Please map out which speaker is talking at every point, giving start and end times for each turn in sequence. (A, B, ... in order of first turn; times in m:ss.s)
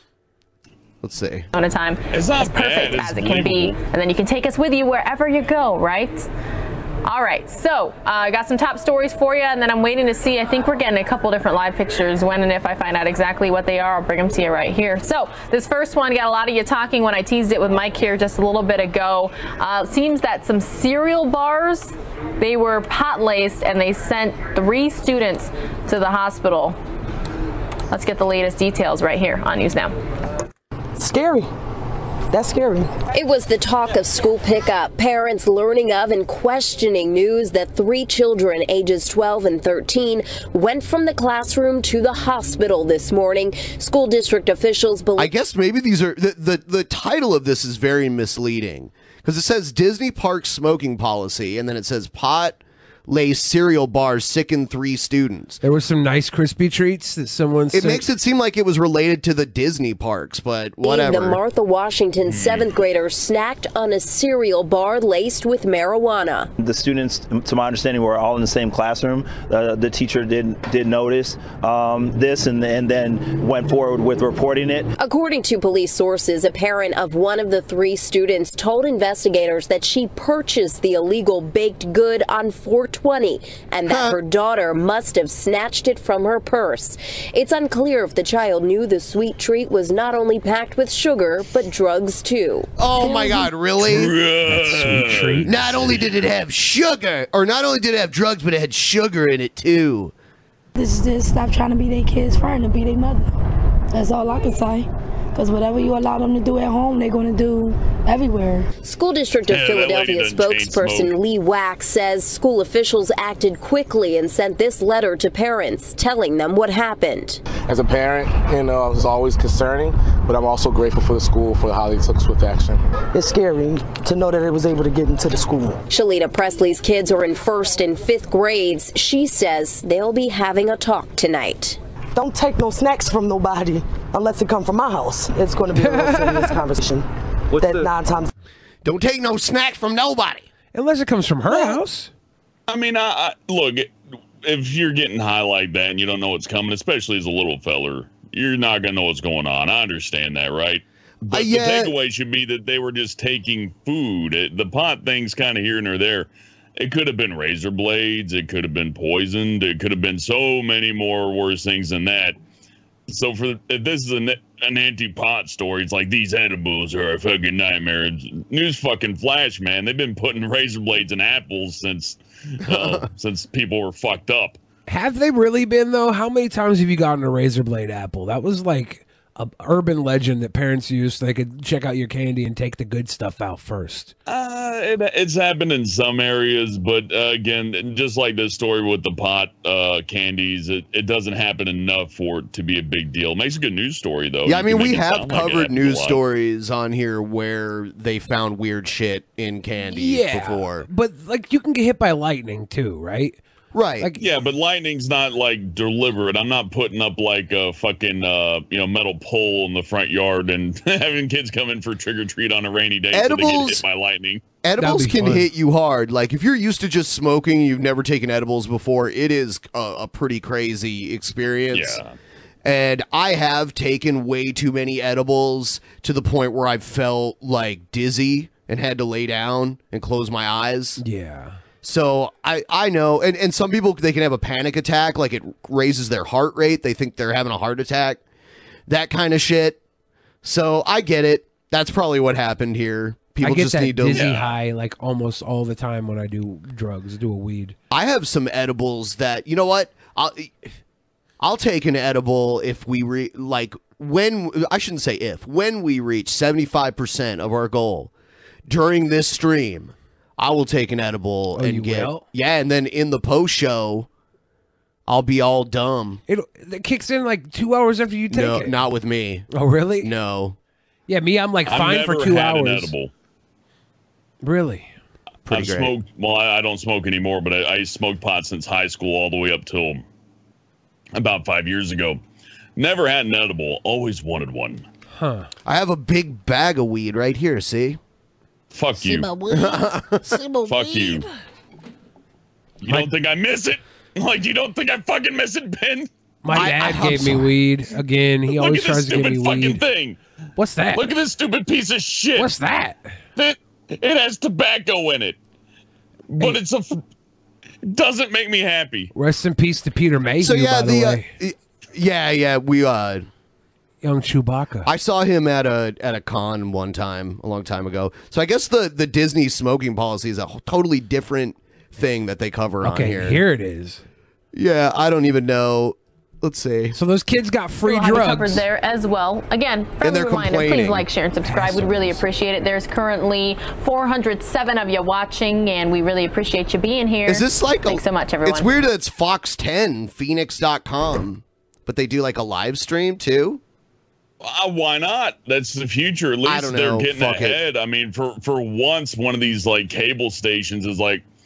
0:01.0-0:01.5 A
0:01.5-0:06.3 B
0:02.1-0:03.8 C
0:07.0-0:26.8 B
0:27.9-0:29.9 B
0:31.0-0:31.5 D
0:32.3-0:32.9 D
0:33.1-0:45.3 E
0:45.2-0:55.6 A
0:55.6-0:58.0 F
0:57.7-1:01.4 A
1:00.8-1:06.5 E
1:02.3-1:02.6 C
1:06.6-1:14.9 G
1:15.0-1:32.7 E
1:23.9-1:24.2 A
1:32.8-1:34.1 A
1:33.8-1:36.0 C
1:34.5-1:35.9 F
1:35.4-1:40.1 A
1:40.7-1:43.4 H
1:43.9-1:48.7 H
1:48.8-1:57.4 E
1:49.5-1:51.1 C
1:57.6-2:02.8 I
2:03.1-2:05.8 D
2:05.9-2:11.8 E
2:12.1-2:18.3 D
2:15.8-2:16.6 F
2:18.8-2:20.4 A
2:20.7-2:22.1 F
2:22.7-2:42.4 C
2:31.3-2:31.9 A
2:43.1-2:54.6 C
2:52.6-2:53.0 A
2:54.9-3:04.1 F
3:04.3-3:16.2 C
3:14.4-3:20.9 A
3:19.9-3:23.4 F
3:23.7-3:24.1 A
3:24.2-3:34.4 C
3:33.1-3:33.8 A
3:34.6-3:42.0 A
3:34.8-3:35.5 F
3:41.7-3:42.1 C
3:42.6-3:51.0 A
3:51.0-3:51.6 F
3:51.8-3:58.2 A
3:58.9-3:59.8 A
4:00.4-4:04.3 A
4:03.4-4:07.8 F
4:04.1-4:04.5 C
4:07.9-4:10.7 A
4:11.4-4:18.1 A
4:18.7-4:24.1 A
4:21.5-4:22.2 F
4:25.1-4:26.2 A
4:26.3-4:28.7 F
4:28.3-4:29.4 A
4:29.5-4:30.1 F
4:30.0-4:30.6 A
4:31.1-4:32.9 F
4:31.7-4:33.1 C
4:34.4-4:34.9 F
4:35.5-4:35.9 A
4:35.5-4:40.0 C
4:41.1-4:42.2 C
4:42.8-4:44.8 C
4:45.1-4:45.5 F
4:45.6-4:48.0 A
4:48.7-4:49.4 C
4:49.4-4:50.4 A
4:50.6-4:51.2 C
4:52.8-4:56.1 C
4:56.4-4:59.8 F
4:56.5-4:57.5 A
4:58.5-5:00.2 C
5:00.6-5:01.1 F
5:00.9-5:02.5 C
5:02.4-5:03.1 F
5:03.4-5:05.4 C
5:06.3-5:07.0 C
5:07.9-5:09.1 C
5:09.1-5:11.3 F
5:10.4-5:13.3 A
5:14.0-5:14.9 F
5:14.8-5:23.4 A
5:22.8-5:24.0 F
5:24.5-5:27.0 A
5:26.9-5:28.6 F
5:27.8-5:38.7 B
5:30.0-5:31.1 A
5:31.5-5:32.2 F
5:37.2-5:43.6 A
5:44.4-5:51.2 C
5:46.4-5:47.6 A